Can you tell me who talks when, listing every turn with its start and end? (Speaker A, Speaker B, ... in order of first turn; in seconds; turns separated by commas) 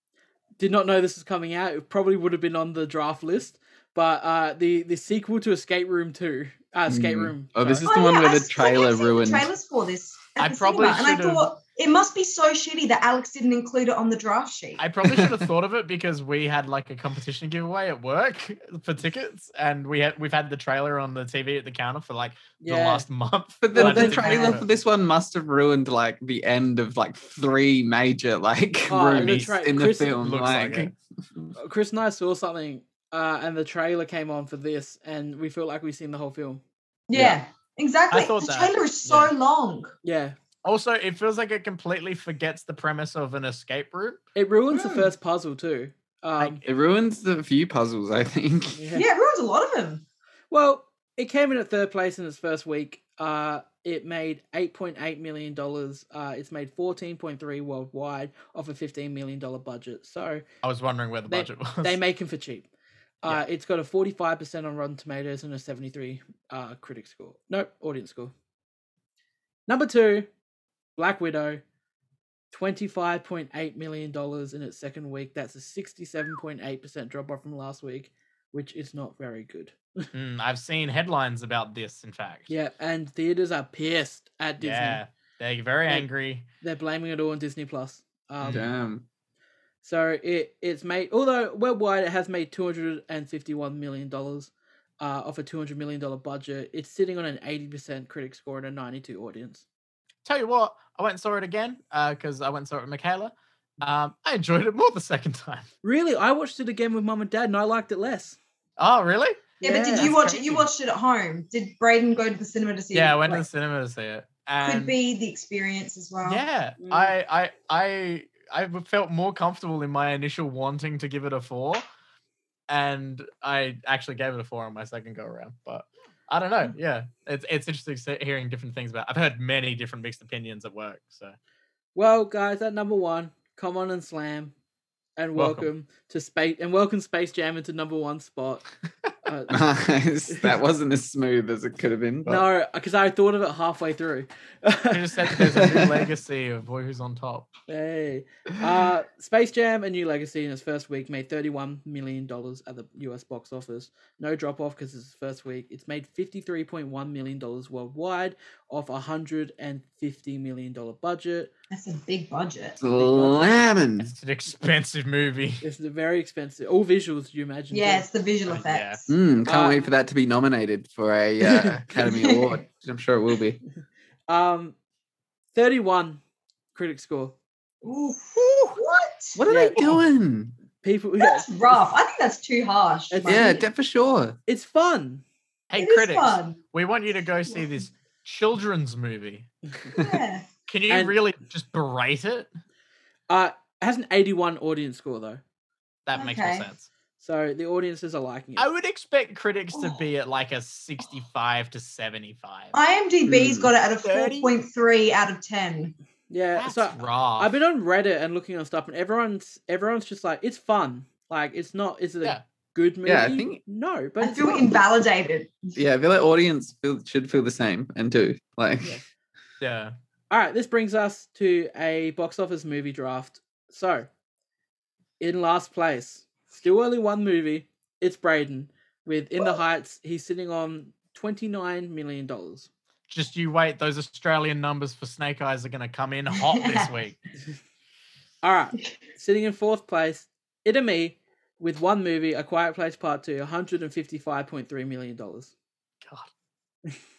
Speaker A: 0.6-7.5, Speaker B: 6.9-9.5, Speaker C: 7.6-7.9, Speaker D: 7.8-14.8, Speaker C: 10.4-11.5, Speaker C: 14.8-24.6, Speaker B: 15.1-15.4, Speaker A: 22.6-23.1, Speaker B: 23.6-31.5, Speaker A: 23.8-24.6, Speaker D: 23.8-24.6, Speaker A: 28.9-30.2, Speaker C: 29.1-30.9, Speaker A: 31.6-36.6, Speaker D: 37.1-39.9, Speaker B: 37.1-37.4, Speaker C: 38.1-39.3, Speaker A: 40.0-40.4, Speaker C: 40.6-44.2, Speaker A: 44.4-46.6, Speaker D: 44.7-45.1, Speaker B: 46.6-48.8, Speaker A: 48.8-49.1, Speaker D: 48.9-50.0, Speaker A: 50.5-60.5, Speaker C: 60.6-62.0, Speaker A: 61.3-62.7, Speaker A: 63.2-68.3, Speaker A: 69.7-70.3, Speaker A: 71.0-71.6, Speaker A: 72.5-80.1, Speaker C: 80.1-82.5, Speaker A: 82.5-85.0, Speaker C: 84.6-86.5, Speaker A: 86.6-88.7, Speaker B: 88.5-89.0, Speaker A: 89.8-99.6, Speaker C: 100.2-105.7, Speaker A: 105.8-108.4, Speaker C: 108.8-110.7, Speaker A: 109.6-110.1, Speaker D: 109.6-113.5, Speaker C: 112.9-115.0, Speaker D: 114.6-116.4, Speaker C: 116.2-121.8, Speaker A: 116.8-117.1, Speaker C: 122.7-131.4, Speaker A: 131.9-134.5, Speaker A: 135.2-138.6, Speaker C: 135.4-135.7, Speaker A: 139.2-139.7, Speaker B: 139.5-142.4, Speaker A: 140.3-140.5, Speaker A: 142.2-145.8, Speaker C: 144.9-147.5, Speaker A: 147.7-161.5, Speaker D: 161.7-162.8, Speaker B: 162.8-164.1, Speaker A: 162.9-163.6, Speaker C: 164.0-165.6, Speaker A: 165.6-168.1, Speaker D: 167.7-169.1, Speaker C: 168.5-169.0, Speaker B: 169.1-173.6, Speaker A: 169.5-169.9, Speaker A: 171.5-171.8, Speaker D: 172.0-172.6, Speaker A: 174.3-174.8, Speaker A: 175.5-176.2, Speaker A: 176.7-177.3, Speaker D: 177.8-179.4, Speaker B: 179.3-180.5, Speaker A: 179.5-179.8, Speaker A: 180.8-181.5, Speaker D: 181.2-183.7, Speaker A: 183.1-183.6, Speaker B: 183.3-184.4, Speaker A: 184.5-185.2, Speaker C: 185.7-189.5, Speaker D: 185.8-186.6, Speaker D: 190.0-190.5, Speaker C: 190.7-192.5, Speaker A: 190.9-191.2, Speaker A: 193.3-195.4, Speaker C: 196.1-196.9, Speaker D: 196.2-196.7, Speaker A: 197.2-198.7, Speaker C: 198.6-202.8, Speaker D: 199.7-200.1, Speaker D: 202.7-205.9, Speaker B: 203.3-203.7, Speaker C: 204.0-204.5, Speaker A: 206.3-214.7, Speaker C: 206.6-207.5, Speaker B: 213.1-213.6, Speaker D: 214.2-215.7, Speaker B: 215.8-219.0, Speaker C: 219.6-219.9, Speaker A: 220.3-224.1, Speaker A: 225.2-232.7, Speaker C: 233.1-237.2, Speaker D: 236.3-236.9, Speaker A: 238.4-245.5, Speaker C: 246.0-246.3